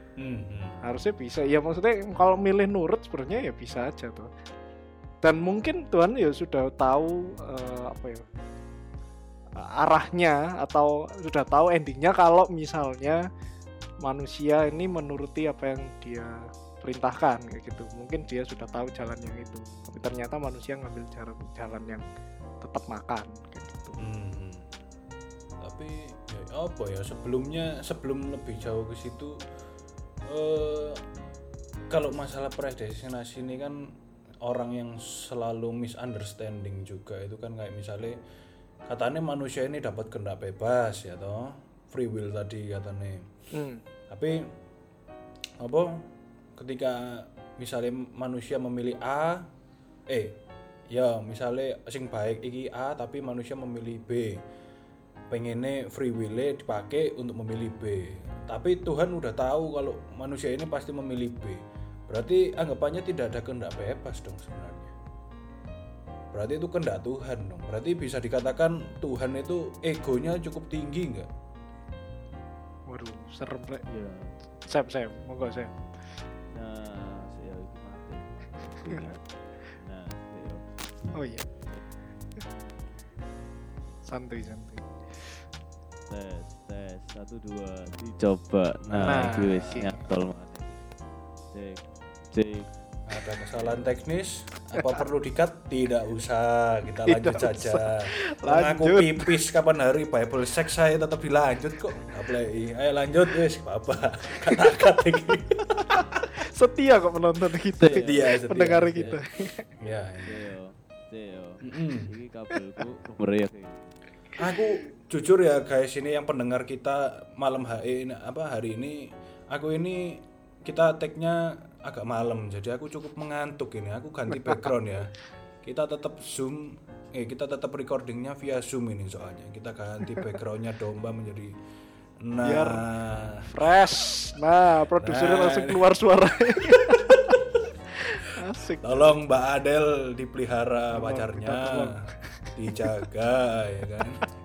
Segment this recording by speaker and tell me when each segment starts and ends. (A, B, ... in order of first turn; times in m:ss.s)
0:00.2-0:00.8 A
0:00.8-0:04.3 B
0:05.2-0:08.2 B
0:09.5-0:13.2 B
0:14.0-0:22.0 B
0:22.6-0:24.0 B
0:24.0-0:24.7 A
0:25.6-0:29.4 A
0:30.2-0:31.0 A
0:31.9-0:38.2 A
0:38.9-0:43.3 A
0:43.5-0:43.8 B
0:44.1-0:44.5 A
0:45.6-0:46.0 A
0:46.6-0:49.5 A
0:50.1-0:50.4 A
0:50.9-0:54.4 A
0:55.3-1:04.9 A
1:06.3-1:11.3 A
1:12.9-1:13.8 B
1:13.9-1:14.3 C
1:14.7-1:15.7 B
1:16.5-1:19.2 C
1:18.9-1:19.1 B
1:19.7-1:20.6 C
1:21.1-1:21.4 B
1:24.0-1:24.9 B
1:26.1-1:30.8 C
1:28.9-1:29.9 A
1:29.0-1:29.9 B
1:31.5-1:32.7 C
1:33.1-1:46.3 A
1:34.8-1:35.0 B
1:37.0-1:39.4 B
1:46.2-1:49.6 B
1:47.8-1:48.3 C
1:47.9-1:49.2 A
1:48.9-1:49.2 C
1:49.8-1:50.4 A
1:50.2-1:53.8 C
1:51.6-1:52.1 A
1:54.4-2:05.1 A
2:05.6-2:11.5 A
2:12.2-2:13.5 A
2:12.4-2:12.8 B
2:13.5-2:17.4 B
2:15.0-2:15.8 A
2:17.0-2:17.4 A
2:18.0-2:19.1 B
2:18.8-2:22.0 A
2:20.9-2:22.0 B
2:22.6-2:24.2 A